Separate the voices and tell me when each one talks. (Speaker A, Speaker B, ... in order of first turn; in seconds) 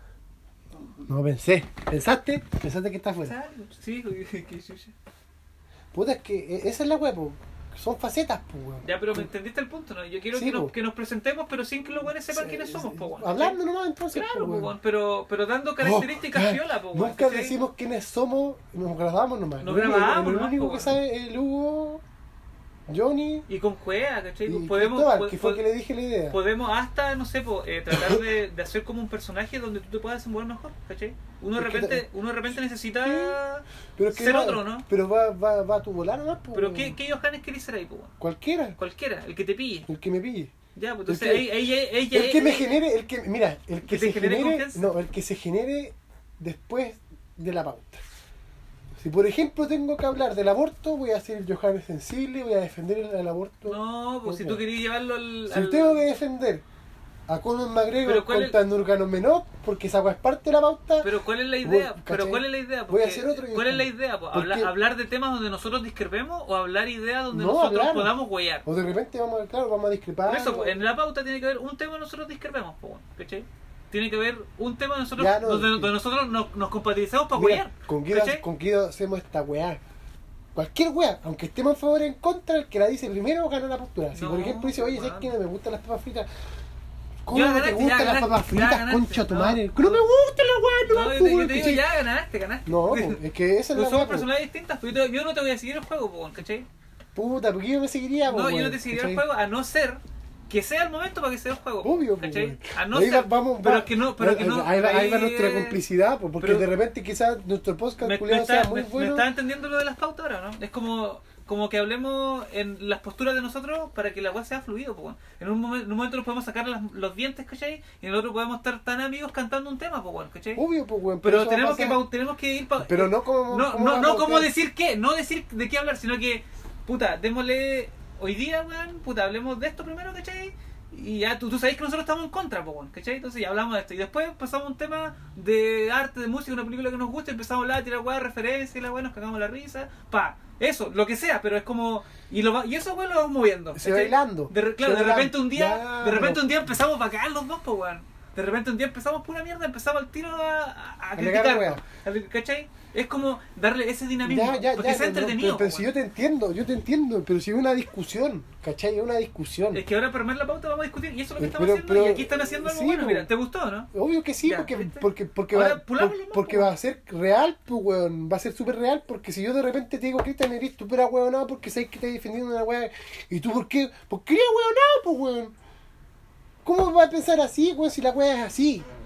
Speaker A: 0.9-3.4, 5.9-9.3, 10.3-10.7, 12.3-14.8, 15.8-22.0, 22.9-23.5, 24.5-26.4, 27.9-28.3, 31.6-33.4, 34.0-37.0, 38.2-38.8, 39.9-40.5, 41.1-48.0, 49.0-54.6, 55.5-56.6, 57.3-61.1, 61.6-64.7, 67.3-70.8, 75.2-75.9, 77.3-79.8, 80.5-86.3, 87.2-91.8, 92.7-94.3, 97.2-99.2, 101.8-109.3, 120.5-122.0, 122.8-124.5, 143.8-146.4, 151.2-151.8, 154.2-159.8, 161.4-163.3, 163.9-175.6, 176.6-178.9
Speaker B: 3.2-5.0, 8.8-13.6, 14.1-17.6, 19.6-21.0, 23.5-25.6, 26.3-34.9, 36.5-38.1, 38.8-39.9, 40.8-42.8, 43.8-44.9, 53.7-56.1, 58.0-58.6, 61.0-68.6, 70.2-78.4, 84.1-85.3, 87.3-90.0, 90.8-93.2, 93.7-96.7, 98.2-105.8, 106.4-106.7, 108.0-120.6, 121.2-155.9, 159.7-163.9, 164.4-166.7